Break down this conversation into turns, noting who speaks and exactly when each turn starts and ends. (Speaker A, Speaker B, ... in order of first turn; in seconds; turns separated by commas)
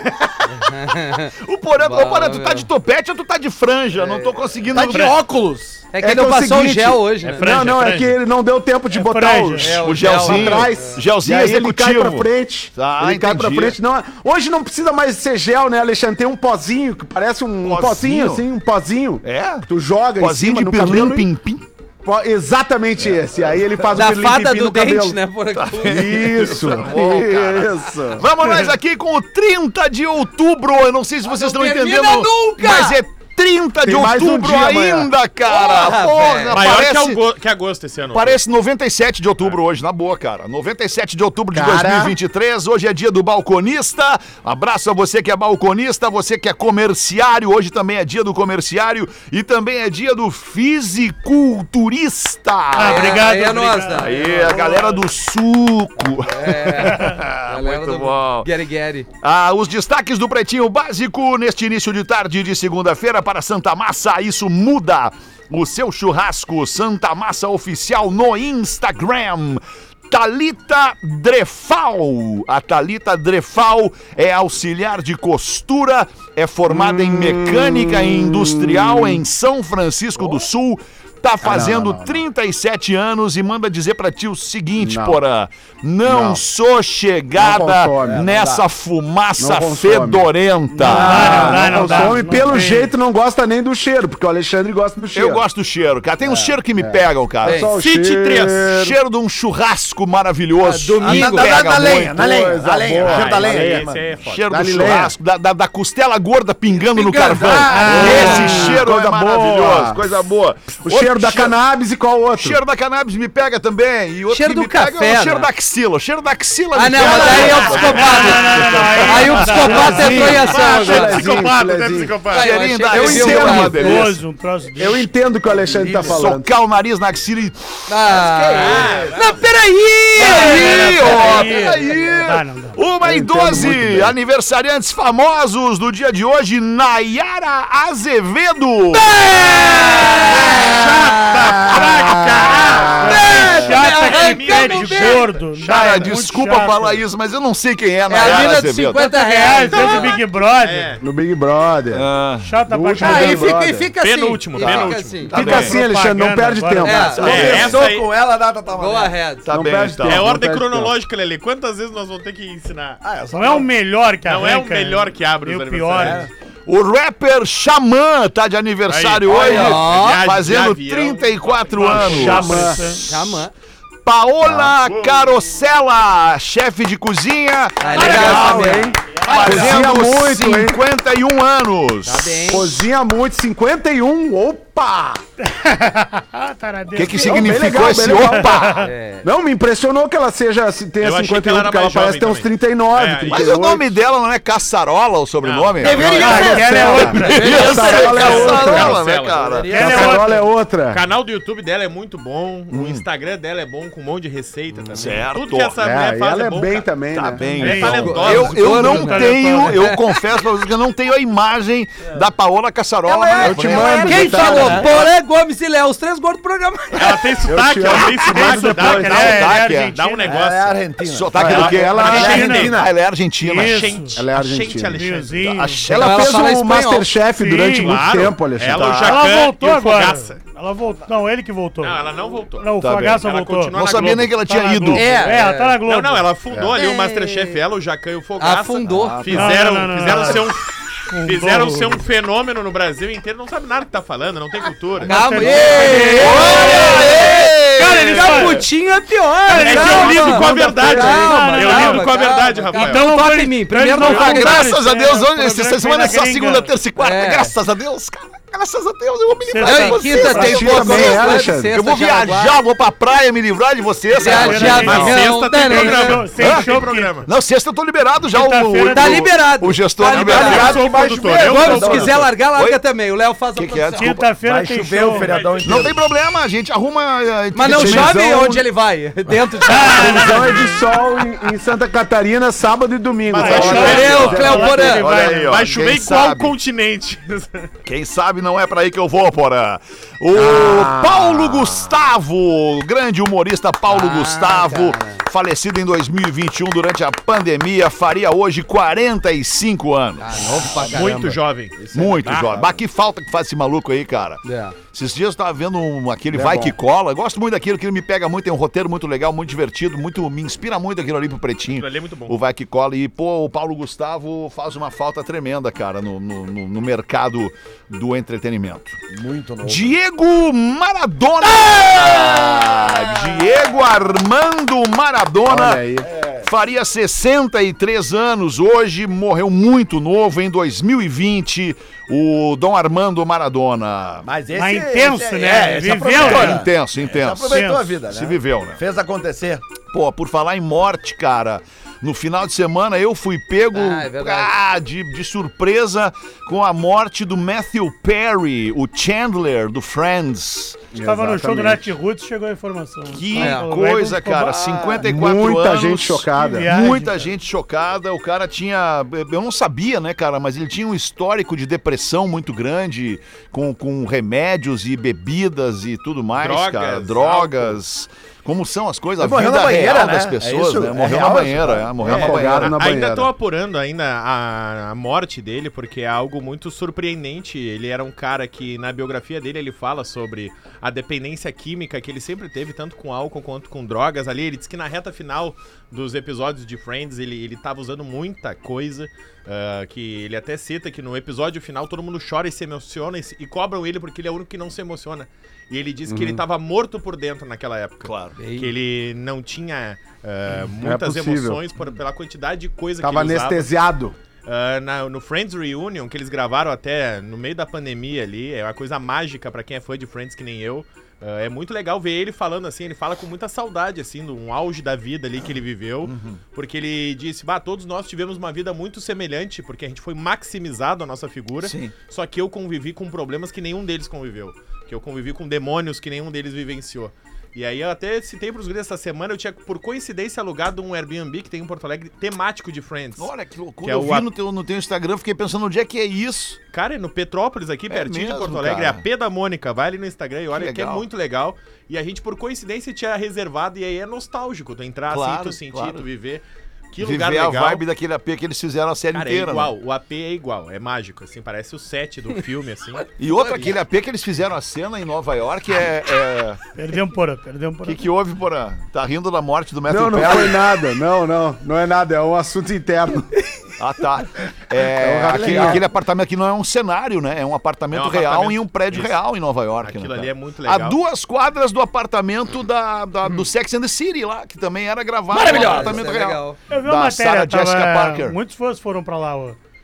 Speaker A: 0.5-2.7, Speaker B: 0.7-5.2, Speaker C: 4.0-5.8, Speaker D: 4.7-5.2, Speaker A: 5.9-7.4, Speaker E: 6.0-21.3, Speaker D: 7.2-8.2, Speaker F: 7.4-8.0, Speaker F: 8.9-9.8, Speaker A: 9.6-11.0, Speaker B: 9.7-13.8, Speaker B: 17.6-18.4, Speaker B: 19.2-19.7, Speaker B: 20.2-21.6, Speaker E: 22.0-25.2, Speaker A: 23.9-26.2, Speaker B: 25.5-37.2, Speaker E: 25.8-28.3, Speaker A: 31.2-33.0, Speaker E: 33.8-35.1, Speaker A: 35.5-36.7, Speaker D: 36.5-38.4, Speaker B: 38.1-58.5, Speaker E: 41.5-42.2, Speaker F: 52.7-55.1, Speaker A: 52.8-54.6, Speaker A: 56.3-59.1, Speaker B: 59.2-92.1, Speaker E: 76.7-79.2, Speaker E: 81.4-82.2, Speaker E: 84.8-85.2, Speaker E: 86.0-86.4, Speaker E: 87.4-88.3, Speaker C: 88.0-88.7, Speaker E: 89.4-90.3, Speaker F: 90.7-92.9, Speaker E: 90.8-95.4, Speaker B: 95.1-97.7, Speaker E: 96.2-99.0, Speaker A: 97.4-97.7, Speaker D: 97.7-98.7, Speaker B: 98.7-102.2, Speaker A: 100.6-101.6, Speaker C: 101.0-104.2, Speaker E: 102.0-103.9, Speaker D: 103.0-104.5, Speaker B: 104.2-111.5, Speaker E: 104.5-105.2, Speaker A: 106.7-108.8, Speaker F: 107.7-108.9, Speaker E: 107.9-110.0, Speaker E: 110.8-112.6, Speaker B: 112.4-120.1, Speaker A: 114.3-115.5, Speaker A: 116.7-121.5, Speaker F: 117.1-120.5, Speaker D: 117.3-119.0, Speaker D: 119.6-122.8, Speaker E: 119.7-122.2, Speaker A: 122.3-124.1, Speaker B: 122.3-124.2, Speaker E: 122.9-123.9, Speaker F: 123.3-125.1, Speaker E: 124.8-126.5, Speaker B: 125.8-129.1, Speaker A: 127.9-132.0, Speaker C: 128.3-129.4, Speaker D: 128.6-129.4, Speaker F: 130.2-132.8, Speaker B: 130.2-139.1, Speaker E: 133.0-134.2, Speaker A: 138.9-141.6, Speaker D: 140.2-146.3, Speaker E: 142.6-143.2, Speaker F: 142.9-147.1, Speaker A: 143.0-145.2, Speaker B: 145.7-149.0, Speaker A: 148.1-150.1, Speaker F: 148.2-151.0, Speaker D: 149.7-151.0, Speaker E: 151.0-152.1, Speaker B: 151.9-152.5, Speaker F: 152.4-153.5, Speaker E: 152.7-153.9, Speaker A: 153.0-155.3, Speaker D: 154.0-155.4, Speaker B: 154.6-155.8, Speaker E: 155.3-157.8, Speaker F: 155.3-157.2, Speaker A: 156.8-157.3, Speaker B: 157.2-157.8, Speaker D: 157.2-158.1, Speaker C: 157.2-159.2, Speaker A: 158.7-159.5, Speaker B: 159.4-160.3, Speaker E: 159.5-160.9, Speaker D: 160.0-163.0, Speaker C: 163.0-163.7, Speaker F: 163.3-166.3, Speaker D: 164.2-166.2, Speaker C: 166.0-166.3, Speaker B: 166.7-172.7, Speaker D: 168.9-172.5, Speaker A: 169.3-170.2, Speaker F: 171.7-173.1, Speaker E: 172.0-172.8, Speaker A: 172.9-173.5, Speaker B: 174.1-182.6, Speaker E: 174.4-174.8, Speaker D: 174.8-175.2, Speaker A: 177.8-178.9, Speaker E: 177.9-180.8, Speaker F: 178.0-179.9, Speaker A: 182.1-182.7, Speaker D: 182.2-182.7, Speaker E: 182.5-185.2, Speaker F: 185.4-188.9, Speaker B: 186.9-188.9, Speaker E: 187.2-194.0, Speaker A: 188.8-189.3, Speaker D: 191.0-193.5, Speaker B: 193.3-199.7, Speaker D: 195.4-196.2, Speaker A: 195.8-198.0, Speaker E: 196.1-199.0, Speaker F: 196.2-197.6, Speaker D: 197.5-200.3, Speaker C: 197.9-200.1, Speaker F: 199.7-200.4, Speaker E: 199.7-201.0, Speaker D: 200.9-209.0, Speaker B: 202.7-203.0, Speaker B: 204.9-205.8, Speaker E: 205.8-207.5, Speaker B: 207.1-215.0, Speaker F: 207.5-210.0, Speaker A: 208.0-210.2, Speaker C: 213.1-215.0, Speaker E: 213.3-214.9, Speaker A: 213.3-217.3, Speaker D: 216.9-220.8, Speaker E: 217.4-218.9, Speaker B: 217.5-219.9, Speaker F: 218.3-220.4, Speaker C: 220.2-222.7, Speaker B: 221.0-224.0, Speaker E: 221.3-222.9, Speaker D: 221.4-222.8, Speaker F: 222.3-222.8, Speaker F: 223.4-224.2, Speaker D: 223.5-225.5, Speaker E: 224.2-225.0, Speaker F: 224.9-225.9, Speaker B: 225.5-226.7, Speaker E: 225.9-229.2, Speaker A: 225.9-227.1, Speaker F: 227.3-228.1, Speaker D: 227.7-230.4, Speaker B: 228.7-229.3, Speaker F: 229.1-236.3, Speaker D: 231.8-234.4, Speaker B: 232.8-235.1, Speaker A: 234.9-235.8, Speaker D: 235.8-240.7, Speaker A: 236.8-237.6, Speaker A: 238.4-239.3, Speaker B: 238.9-240.3, Speaker F: 239.3-240.6, Speaker F: 241.1-242.0, Speaker D: 241.2-246.0, Speaker F: 245.0-247.1, Speaker A: 245.1-254.7, Speaker B: 245.6-248.6, Speaker F: 247.9-248.7, Speaker F: 249.5-256.7, Speaker D: 249.5-253.1, Speaker E: 250.7-251.3, Speaker B: 254.0-265.2, Speaker A: 257.0-257.6, Speaker F: 259.5-260.9, Speaker A: 259.6-262.6, Speaker E: 260.3-261.7, Speaker A: 264.2-266.2, Speaker F: 264.2-267.3, Speaker D: 264.6-267.3, Speaker B: 266.4-270.9, Speaker F: 268.3-269.4, Speaker A: 268.9-270.8, Speaker C: 270.0-272.3, Speaker D: 270.1-272.3, Speaker A: 271.4-274.1, Speaker B: 272.5-272.8, Speaker B: 273.6-274.4, Speaker F: 274.0-275.4, Speaker C: 274.4-276.0, Speaker D: 275.0-275.9, Speaker B: 275.6-278.3, Speaker A: 277.5-280.7, Speaker E: 277.6-278.6, Speaker F: 279.7-280.9, Speaker E: 279.8-284.8, Speaker D: 283.3-287.7, Speaker F: 283.3-285.6, Speaker A: 283.6-285.1, Speaker B: 284.7-286.5, Speaker B: 287.9-301.2, Speaker E: 290.3-291.9, Speaker A: 293.9-295.2, Speaker A: 300.2-301.4, Speaker D: 300.8-302.6, Speaker C: 301.8-302.8, Speaker B: 301.9-319.0, Speaker A: 304.4-304.8, Speaker C: 306.3-306.6, Speaker D: 311.8-312.4, Speaker C: 319.1-320.0, Speaker B: 319.6-325.9, Speaker C: 321.6-323.7, Speaker E: 325.4-326.1, Speaker C: 326.0-326.5, Speaker B: 326.4-334.3, Speaker C: 334.2-339.7, Speaker F: 334.5-336.7, Speaker B: 336.0-338.8, Speaker F: 337.5-337.9, Speaker B: 339.8-350.9, Speaker A: 343.7-344.5, Speaker E: 350.9-351.8, Speaker F: 351.0-354.7, Speaker B: 353.1-372.8, Speaker A: 353.4-353.7, Speaker A: 354.5-355.0, Speaker E: 355.0-356.7, Speaker F: 356.3-357.3, Speaker D: 366.4-367.8, Speaker C: 369.2-372.5, Speaker E: 372.0-373.3, Speaker D: 372.5-403.7, Speaker E: 396.1-396.4, Speaker B: 398.0-398.4, Speaker A: 398.4-398.7, Speaker E: 400.8-401.6, Speaker E: 403.0-404.2, Speaker D: 404.4-433.3, Speaker B: 416.0-416.4, Speaker B: 421.6-421.9, Speaker B: 433.2-436.6, Speaker D: 433.8-434.3, Speaker D: 436.7-447.8, Speaker B: 437.9-439.0, Speaker B: 440.5-441.1, Speaker B: 445.1-446.1, Speaker B: 447.0-449.7, Speaker D: 449.1-453.1, Speaker B: 453.2-456.6, Speaker A: 453.3-453.8, Speaker F: 456.8-458.0, Speaker B: 457.9-460.6, Speaker E: 459.9-463.3, Speaker B: 463.8-478.4, Speaker E: 464.8-465.9, Speaker D: 467.9-469.2, Speaker D: 469.8-471.0, Speaker A: 475.3-476.6, Speaker C: 475.3-476.0, Speaker F: 476.7-479.6